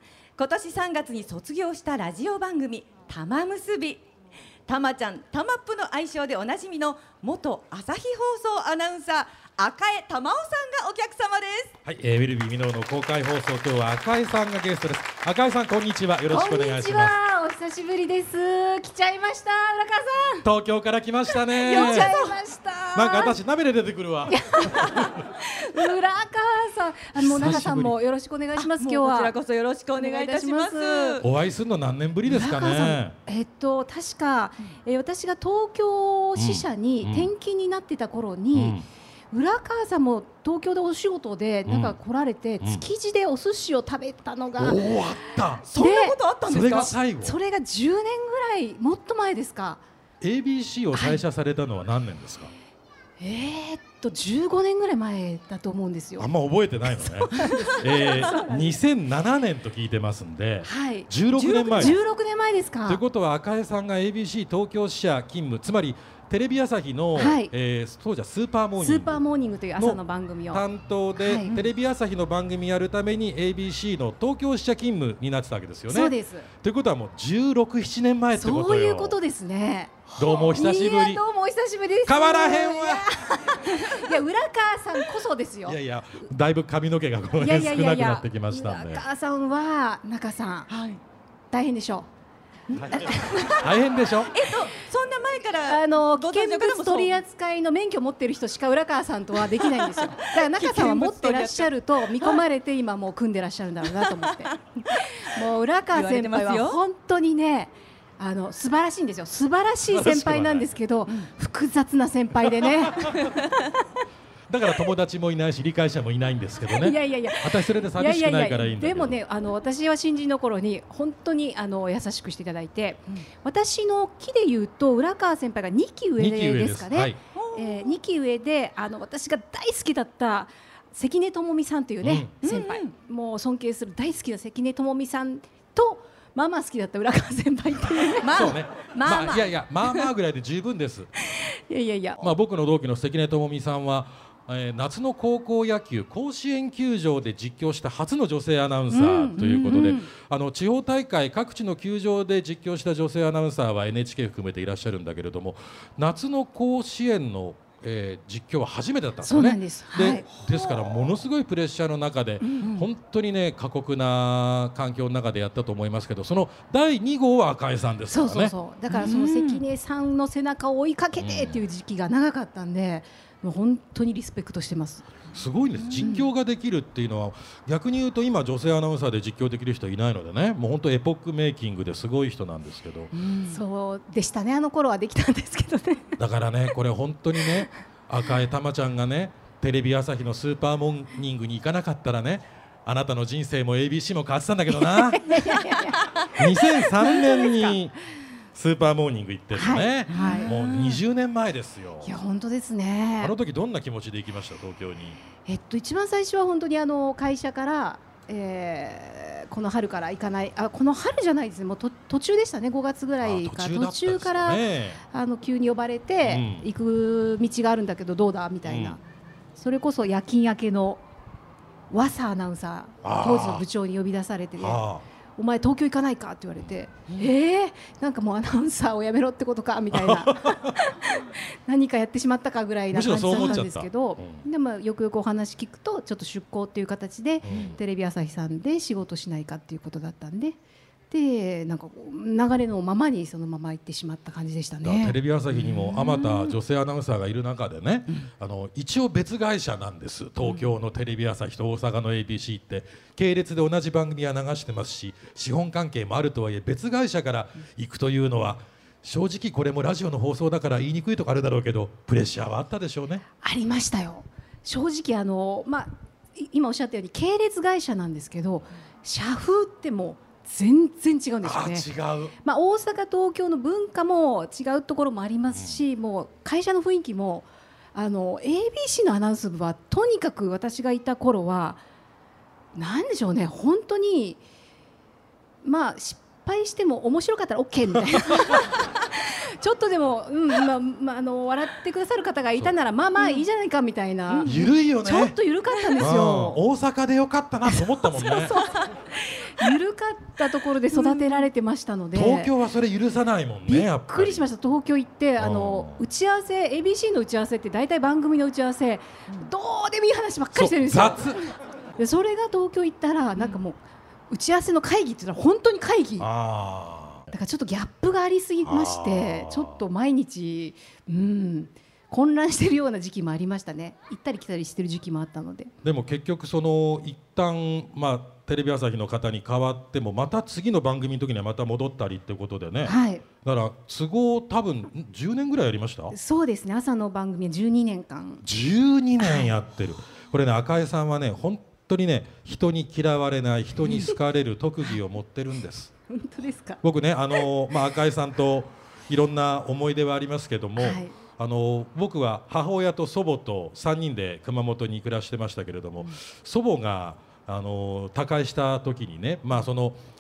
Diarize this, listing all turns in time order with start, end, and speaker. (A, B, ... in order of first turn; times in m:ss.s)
0:00.4-0:04.0 A
0:04.7-0:11.7 A
0:11.8-0:17.2 B
0:16.3-0:20.5 C
0:20.4-0:22.1 B
0:21.6-0:22.3 A
0:21.6-0:23.4 C
0:22.9-0:25.1 B
0:24.3-0:29.4 C
0:27.2-0:28.0 B
0:28.6-0:31.3 A
0:29.9-0:31.2 C
0:31.2-0:33.2 B
0:32.2-0:38.8 C
0:36.4-0:37.3 B
0:38.5-0:38.8 B
0:39.3-0:44.9 C
0:41.7-0:42.0 B
0:44.6-0:45.7 B
0:45.7-0:46.9 A
0:45.7-0:49.8 C
0:46.5-0:47.4 B
0:50.2-0:52.5 B
0:50.9-0:51.2 C
0:53.2-0:56.3 C
0:56.2-1:02.0 B
0:56.9-0:58.8 C
1:00.6-1:01.1 C
1:01.3-1:02.0 A
1:01.8-1:03.0 C
1:02.9-1:09.2 B
1:07.2-1:07.5 C
1:08.8-1:10.6 C
1:10.5-1:19.2 B
1:11.2-1:11.6 C
1:11.4-1:11.6 A
1:15.9-1:16.5 C
1:18.3-1:25.8 C
1:20.2-1:21.2 B
1:22.0-1:23.1 B
1:25.7-1:29.0 B
1:27.4-1:30.7 C
1:30.7-1:31.0 A
1:31.5-1:32.1 C
1:32.7-1:33.6 A
1:32.8-1:33.8 C
1:32.8-1:34.4 B
1:34.3-1:37.2 A
1:35.6-1:53.4 C
1:39.4-1:42.4 A
1:44.0-1:44.9 A
1:45.9-1:46.8 A
1:49.9-1:50.7 B
1:52.6-1:53.3 B
1:53.2-1:53.5 A
1:54.5-1:59.2 B
1:56.7-2:18.5 C
2:06.2-2:07.2 B
2:07.4-2:07.9 A
2:12.0-2:12.3 B
2:12.4-2:12.9 A
2:18.2-2:20.1 A
2:18.3-2:21.1 B
2:21.4-2:22.3 C
2:22.2-2:48.6 B
2:28.9-2:30.1 C
2:39.2-2:41.0 C
2:42.4-2:42.8 C
2:48.1-2:55.1 C
2:48.9-2:49.6 A
2:51.2-2:51.6 B
2:55.3-3:03.1 B
2:55.7-2:56.1 A
2:56.0-2:56.3 C
3:03.1-3:03.6 A
3:03.5-3:06.2 C
3:06.2-3:15.5 B
3:14.7-3:17.8 C
3:16.3-3:18.0 B
3:18.6-3:22.2 B
3:19.5-3:20.5 C
3:20.1-3:21.0 A
3:22.0-3:23.4 C
3:23.2-3:25.2 B
3:25.4-3:39.0 C
3:33.2-3:35.0 B
3:36.2-3:36.7 B
3:38.6-3:39.0 B
3:39.6-3:41.0 C
3:41.9-3:44.8 C
3:43.0-3:43.6 B
3:44.6-3:45.0 B
3:45.4-4:00.6 C
3:49.9-3:50.8 B
3:52.9-3:54.4 B
3:53.3-3:53.6 A
3:57.4-3:57.8 B
4:01.1-4:05.2 C
4:04.8-4:23.2 B
4:05.6-4:06.5 A
4:10.4-4:10.7 A
4:23.4-4:41.8 C
4:31.4-4:32.4 B
4:35.5-4:35.8 B
4:42.8-4:44.4 C
4:45.6-4:56.6 C
4:53.2-4:53.4 A
4:54.3-4:54.7 A
4:54.4-4:55.4 B
4:55.7-4:56.0 A
4:56.0-4:58.6 B
4:58.1-5:02.5 C
5:00.9-5:01.5 A
5:02.1-5:04.5 B
5:03.7-5:11.4 C
5:05.4-5:06.0 B
5:10.6-5:11.4 B
5:12.0-5:16.3 C
5:16.2-5:17.3 B
5:17.3-5:25.7 C
5:18.6-5:19.8 B
5:25.8-5:36.2 B
5:32.8-5:33.2 C
5:36.1-5:38.4 C
5:38.4-5:45.9 B
5:39.2-5:39.5 C
5:43.9-5:44.2 C
5:46.1-5:46.8 C
5:46.8-6:00.0 B
5:50.8-5:51.2 C